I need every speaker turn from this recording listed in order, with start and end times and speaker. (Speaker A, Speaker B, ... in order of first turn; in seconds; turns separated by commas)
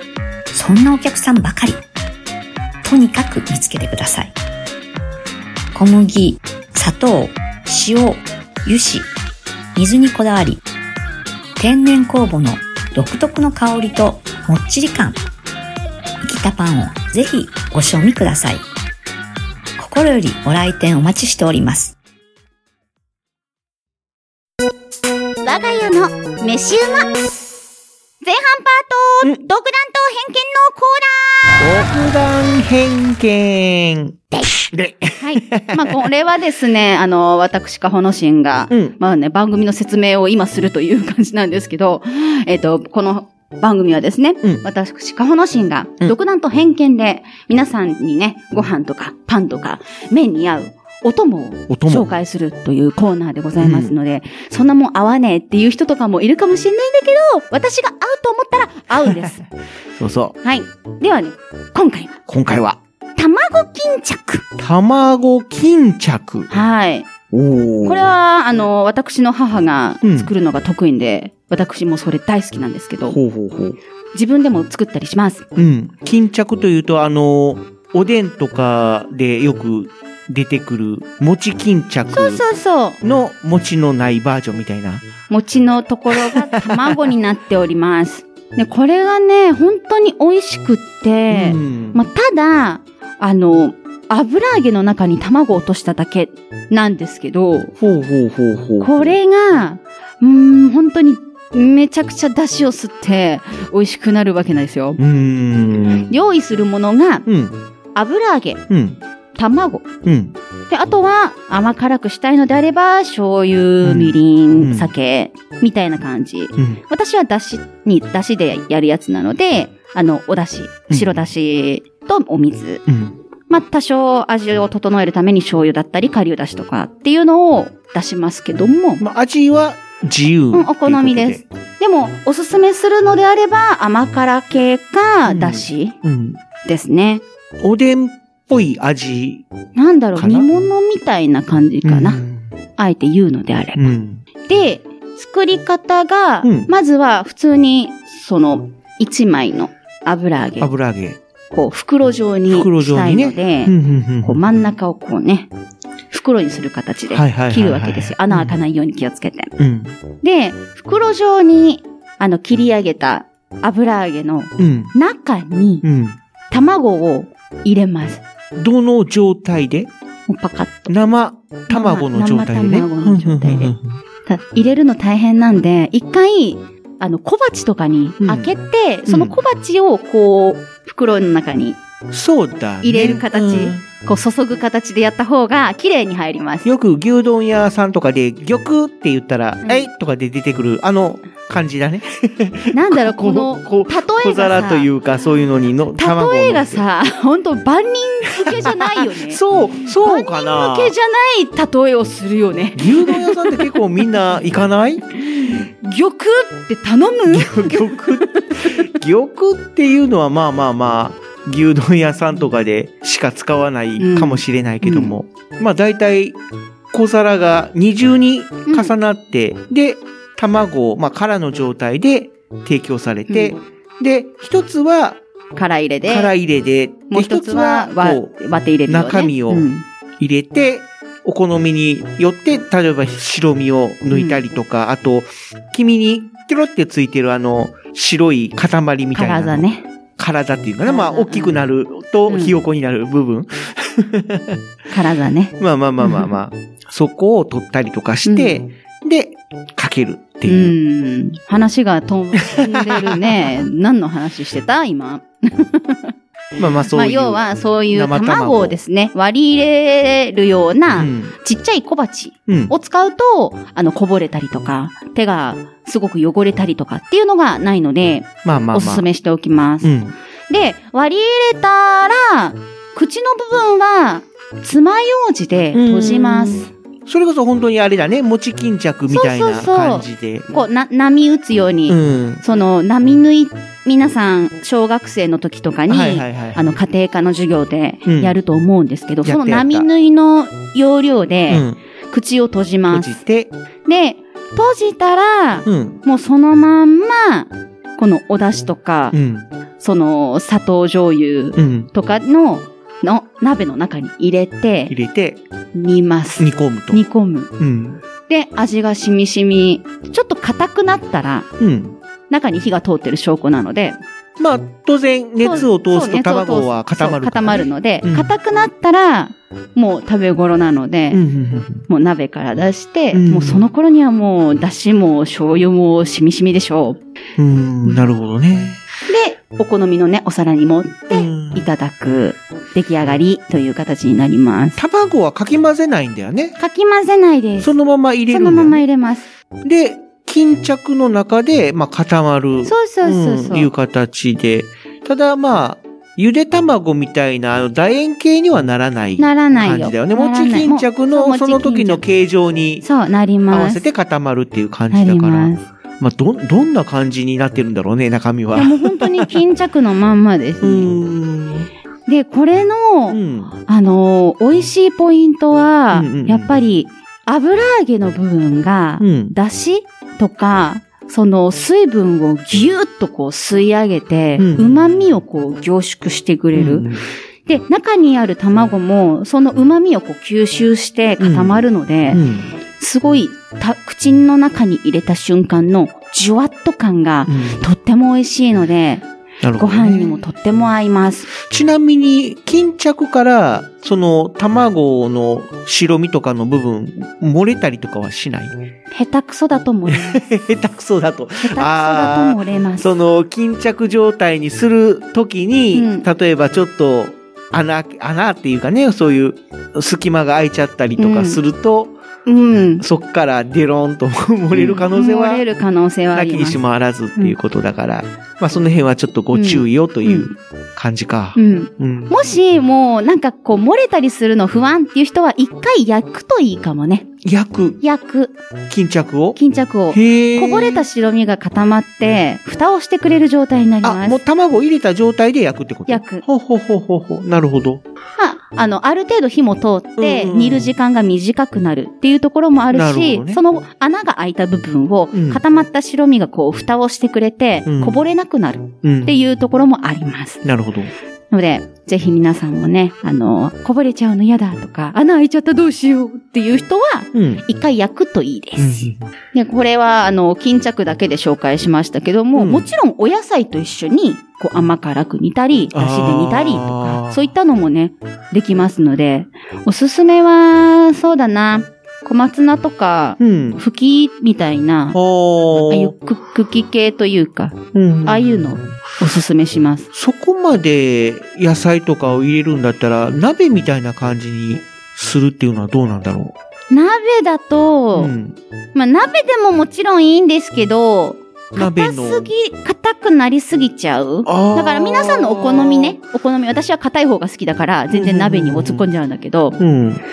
Speaker A: 0.5-1.8, Speaker A: 2.8-4.3, Speaker A: 5.7-9.1, Speaker A: 9.8-10.6, Speaker A: 11.6-15.2, Speaker A: 16.2-18.6, Speaker A: 19.8-21.9, Speaker B: 25.4-27.2, Speaker B: 28.2-31.6, Speaker C: 31.6-35.9, Speaker B: 35.2-59.4, Speaker C: 38.7-39.0, Speaker C: 51.7-52.1, Speaker C: 53.6-53.9, Speaker C: 59.0-59.3, Speaker C: 60.0-60.4, Speaker B: 60.4-62.2, Speaker C: 62.3-62.8, Speaker B: 63.2-64.4, Speaker C: 64.6-66.5, Speaker B: 66.5-67.1, Speaker C: 67.3-68.0, Speaker B: 67.8-73.2, Speaker C: 70.0-70.3, Speaker C: 73.0-73.8, Speaker B: 74.1-75.4, Speaker C: 75.5-82.4, Speaker B: 82.1-83.0, Speaker C: 83.0-85.0, Speaker B: 85.3-97.7, Speaker C: 86.1-87.0, Speaker C: 91.3-92.0, Speaker C: 97.8-99.2, Speaker B: 98.8-105.0, Speaker C: 105.0-106.1, Speaker B: 106.1-107.3, Speaker C: 107.2-107.6, Speaker B: 107.9-108.6, Speaker C: 108.7-109.0, Speaker B: 109.3-109.9, Speaker C: 110.0-110.3, Speaker B: 110.7-122.8, Speaker C: 113.8-114.9, Speaker C: 120.9-121.2, Speaker C: 122.9-123.2, Speaker B: 123.5-129.0, Speaker C: 129.0-131.4, Speaker B: 130.5-135.9, Speaker C: 135.3-136.4, Speaker B: 136.6-137.2, Speaker C: 137.6-139.4, Speaker B: 139.7-142.2, Speaker C: 140.1-140.5, Speaker C: 141.8-142.5, Speaker B: 142.8-143.9, Speaker C: 143.7-144.2, Speaker B: 144.5-150.7, Speaker C: 146.4-146.7, Speaker C: 150.6-151.2, Speaker B: 151.5-155.5, Speaker C: 152.5-154.4, Speaker B: 156.1-159.5, Speaker C: 157.1-158.6, Speaker C: 159.6-159.9, Speaker B: 160.2-165.8, Speaker C: 164.6-164.9, Speaker C: 165.8-166.2, Speaker B: 166.5-168.2, Speaker C: 168.5-169.9, Speaker B: 170.3-170.9, Speaker C: 170.9-173.9, Speaker B: 171.7-173.7, Speaker B: 174.2-181.8, Speaker C: 178.2-178.5, Speaker C: 179.1-179.4, Speaker C: 182.1-183.8, Speaker B: 182.8-186.7, Speaker C: 186.6-196.8, Speaker B: 192.7-194.9, Speaker B: 195.9-199.4, Speaker C: 198.4-200.9, Speaker B: 200.0-203.6, Speaker C: 202.8-205.1, Speaker B: 205.2-208.8, Speaker C: 207.3-216.4, Speaker B: 214.0-215.1, Speaker C: 216.9-225.2, Speaker B: 218.7-218.9, Speaker B: 223.3-223.6, Speaker B: 225.5-226.3, Speaker C: 226.0-228.3, Speaker B: 227.1-229.8, Speaker C: 228.8-229.7, Speaker C: 230.2-244.6, Speaker B: 234.1-234.4, Speaker B: 239.1-239.8, Speaker B: 240.8-241.6, Speaker B: 242.3-242.6, Speaker B: 244.9-246.3, Speaker C: 245.6-250.7, Speaker B: 248.2-248.6, Speaker B: 250.5-256.1, Speaker C: 252.4-253.5, Speaker C: 256.6-258.8, Speaker B: 256.9-269.9, Speaker C: 260.9-261.3, Speaker C: 262.5-262.7, Speaker C: 268.4-269.1, Speaker C: 269.8-270.1, Speaker B: 270.5-276.7, Speaker C: 275.7-280.5, Speaker B: 279.1-293.2, Speaker C: 281.9-282.4, Speaker C: 285.9-286.6, Speaker C: 288.1-288.4, Speaker C: 289.2-289.9, Speaker C: 291.5-291.8, Speaker C: 292.9-293.5, Speaker B: 293.9-299.1, Speaker C: 295.6-296.0, Speaker C: 299.1-299.5, Speaker B: 299.8-304.9, Speaker C: 301.6-301.9, Speaker C: 304.9-305.4, Speaker B: 305.7-307.5, Speaker C: 306.4-307.0, Speaker C: 307.6-308.0, Speaker B: 308.3-311.5, Speaker C: 311.6-312.0, Speaker B: 312.3-314.0, Speaker C: 314.4-318.3, Speaker B: 315.4-321.2, Speaker C: 321.1-321.9, Speaker B: 321.9-327.0, Speaker C: 323.1-323.6, Speaker C: 327.4-328.8, Speaker B: 329.1-334.8, Speaker C: 331.1-331.7, Speaker C: 334.8-336.6, Speaker B: 336.6-337.7, Speaker C: 337.6-338.8, Speaker B: 338.3-339.3, Speaker C: 339.6-352.8, Speaker B: 342.6-343.7, Speaker B: 349.2-352.0, Speaker B: 352.8-353.8, Speaker C: 353.5-359.3, Speaker B: 354.9-355.6, Speaker B: 358.5-361.0, Speaker C: 360.6-361.7, Speaker B: 362.1-376.9, Speaker C: 363.1-363.5, Speaker C: 365.9-366.5, Speaker C: 369.0-369.3, Speaker C: 374.4-374.8, Speaker C: 376.5-377.0, Speaker B: 377.4-389.0, Speaker C: 381.2-382.5, Speaker C: 387.3-387.6, Speaker C: 389.4-390.2, Speaker B: 389.6-391.3, Speaker C: 391.3-398.6, Speaker B: 398.9-400.2, Speaker C: 399.9-412.0, Speaker B: 401.4-402.9, Speaker B: 405.7-406.1, Speaker B: 411.0-411.4, Speaker B: 412.2-412.8, Speaker C: 412.8-415.4, Speaker B: 414.5-416.6, Speaker C: 416.1-422.1, Speaker B: 419.3-420.3, Speaker B: 421.4-427.1, Speaker C: 427.2-427.8, Speaker B: 427.8-428.4, Speaker C: 428.7-429.4, Speaker B: 429.4-434.2, Speaker C: 429.9-430.8, Speaker C: 433.8-437.8, Speaker B: 435.9-436.2, Speaker B: 438.2-450.4, Speaker C: 440.0-440.7, Speaker C: 442.7-443.4, Speaker C: 445.1-445.4, Speaker C: 447.6-448.0, Speaker C: 448.8-449.1, Speaker C: 450.4-450.9, Speaker B: 451.3-475.0, Speaker C: 457.1-457.4, Speaker C: 458.6-459.1, Speaker C: 462.3-462.6, Speaker C: 465.7-467.3, Speaker C: 473.2-473.6, Speaker C: 474.9-475.9, Speaker B: 475.5-479.9, Speaker C: 477.7-478.7, Speaker C: 479.9-486.3, Speaker B: 486.7-488.1, Speaker C: 487.9-488.4, Speaker B: 488.7-499.6, Speaker C: 491.6-492.3, Speaker C: 494.2-496.0, Speaker C: 497.9-498.9, Speaker C: 499.6-500.0